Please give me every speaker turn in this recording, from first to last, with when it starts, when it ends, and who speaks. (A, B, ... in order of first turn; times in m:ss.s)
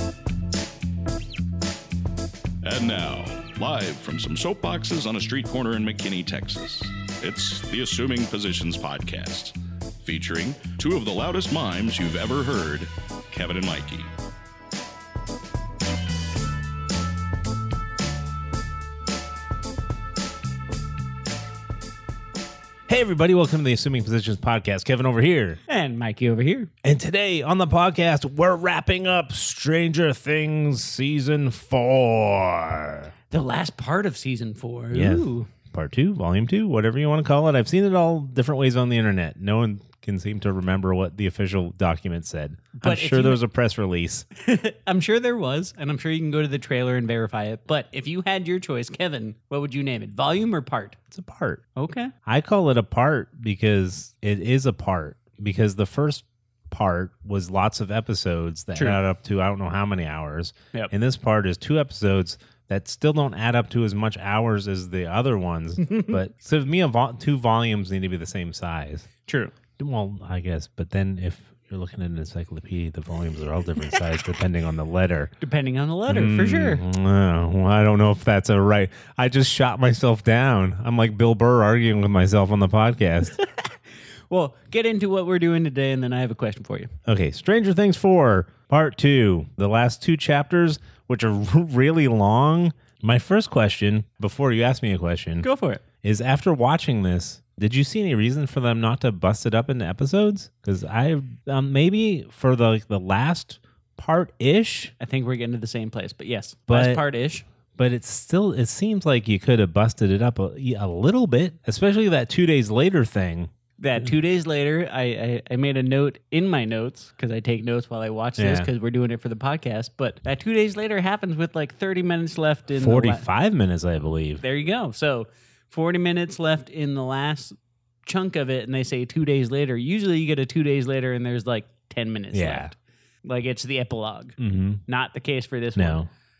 0:02.6-0:14.1 A
0:22.9-0:25.6 B
0:25.7-0:26.7 C
0:26.8-0:33.1 B
0:33.3-0:35.5 C
0:34.9-0:44.2 B
0:42.8-0:43.4 C
0:44.4-0:51.0 C
0:51.1-0:51.6 B
0:51.8-0:52.1 C
0:52.2-1:09.1 B
1:09.3-1:09.5 C
1:09.8-1:15.3 B
1:15.4-1:16.8 C
1:16.1-1:23.4 B
1:23.4-1:23.7 C
1:24.3-1:26.9 C
1:27.0-1:35.4 B
1:35.4-1:35.8 C
1:36.0-1:44.9 B
1:45.0-1:47.4 C
1:46.7-1:47.0 B
1:47.8-1:54.1 B
1:53.8-2:03.2 C
1:58.4-1:58.7 B
2:02.8-2:04.4 B
2:04.4-2:16.0 C
2:12.3-2:12.7 B
2:14.4-2:14.8 B
2:15.8-2:16.1 B